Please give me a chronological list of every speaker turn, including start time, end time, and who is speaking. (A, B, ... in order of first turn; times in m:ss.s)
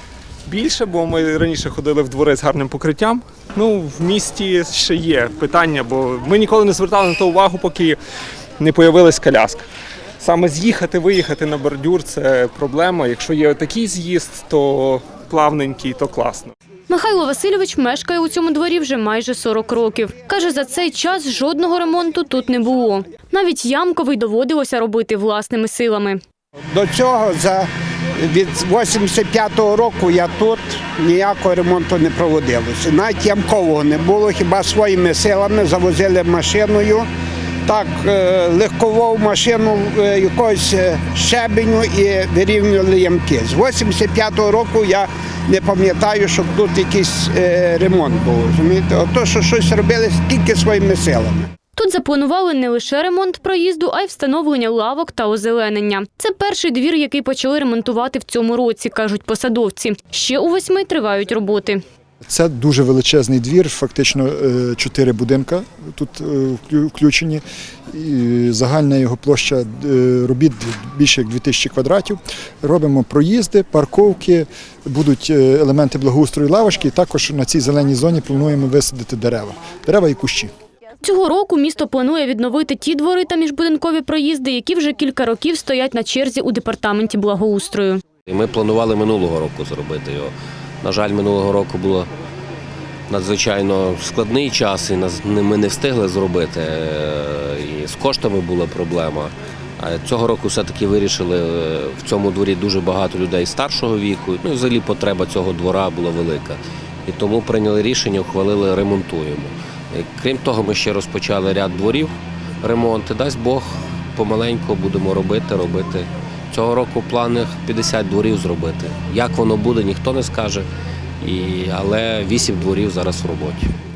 0:00.5-0:08.0 A
0:08.6-0:09.6 A
0:10.2-0:16.5 A
0:16.9-0:26.2 B
0:26.7-0:27.7 C
0:28.2-0:37.1 C
0:37.6-0:51.5 C
0:51.8-1:01.8 B
1:02.3-1:20.5 D
1:21.0-1:28.0 B
1:28.3-1:32.1 E
1:33.1-2:00.7 E
2:01.2-2:03.7 E